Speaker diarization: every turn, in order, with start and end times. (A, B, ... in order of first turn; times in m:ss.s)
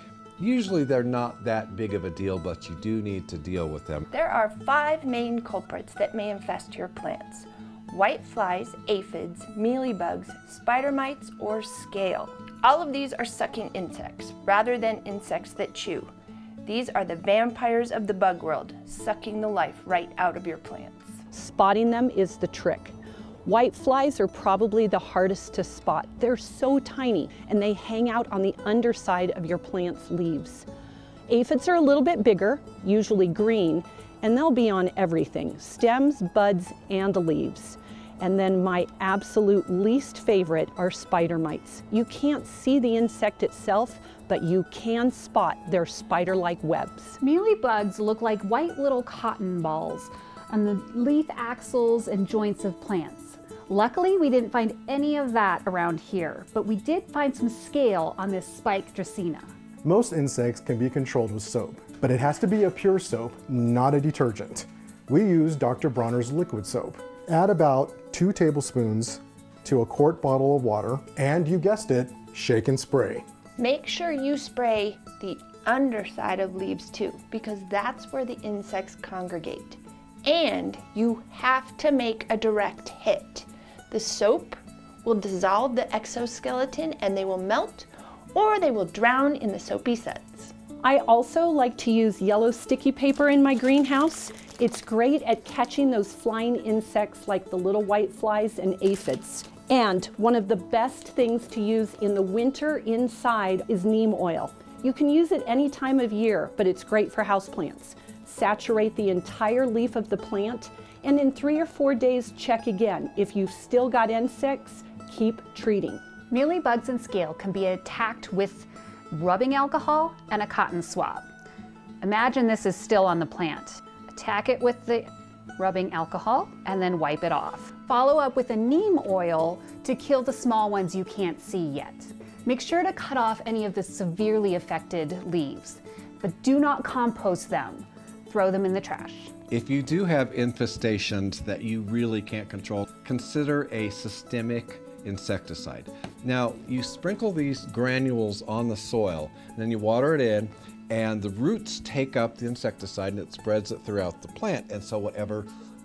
0:00.4-0:04.1 A
0:04.1-0:16.1 B
0:16.6-0:21.2 B
0:21.3-0:22.9 C
0:23.4-0:30.6 C
0:31.3-0:47.2 C
0:47.2-0:59.5 D
0:59.8-1:13.2 E
1:13.6-1:30.5 B
1:30.8-1:56.0 C
1:56.3-2:01.3 D
2:02.0-2:05.0 D
2:05.6-2:19.3 D
2:19.5-2:35.5 A